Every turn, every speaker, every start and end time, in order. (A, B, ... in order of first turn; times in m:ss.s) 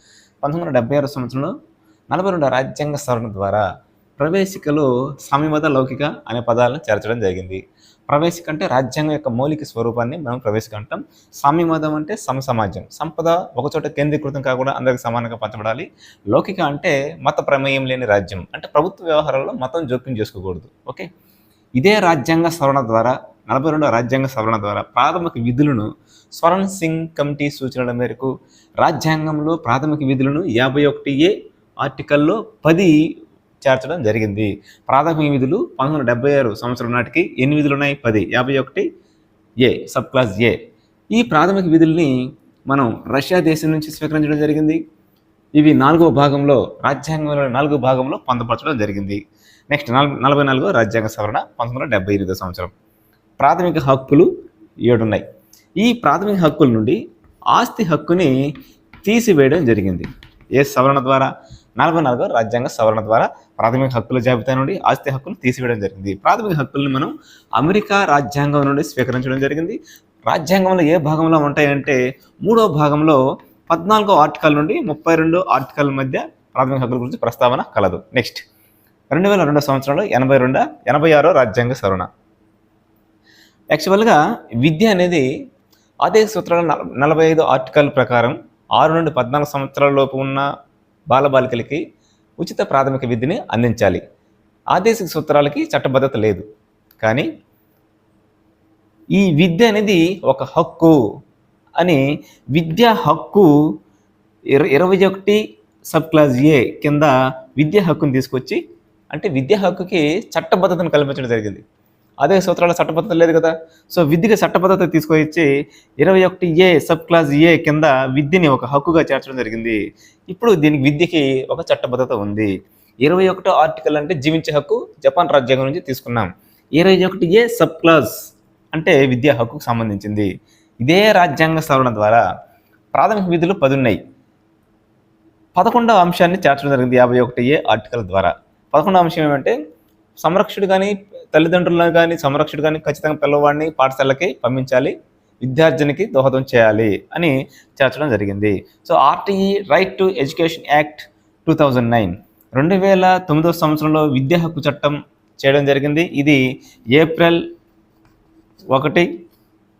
0:00.4-0:01.5 A
0:02.1-0:03.6 A
0:04.2-0:21.1 A
0:21.8-0:33.0 A
0:33.6-0:38.8 A
0:39.6-0:40.6 A
0:41.1-0:42.1 A
0:42.7-0:44.8 A
0:45.6-0:52.7 A
0:53.4-0:54.3 A
0:54.8-0:55.2 A
0:55.8-0:57.0 A
0:57.5-0:58.3 A
0:59.0-1:13.2 A
1:13.7-1:18.4 A
1:19.1-1:22.1 A
1:23.7-1:25.2 A
1:26.0-1:30.4 A
1:31.1-1:31.8 A
1:32.4-1:34.0 A
1:34.7-1:36.4 A
1:37.0-1:37.3 A
1:39.1-1:41.0 A
1:42.5-1:43.5 A
1:44.5-1:48.6 A
1:49.1-1:51.6 A
1:52.2-1:55.5 A
1:56.0-1:59.8 A
2:00.3-2:02.5 A
2:03.0-2:08.1 A
2:08.7-2:10.3 A
2:10.8-2:12.2 A
2:12.9-2:14.0 A
2:15.6-2:19.6 A
2:20.2-2:36.4 A
2:36.9-2:37.4 A
2:38.7-2:39.1 A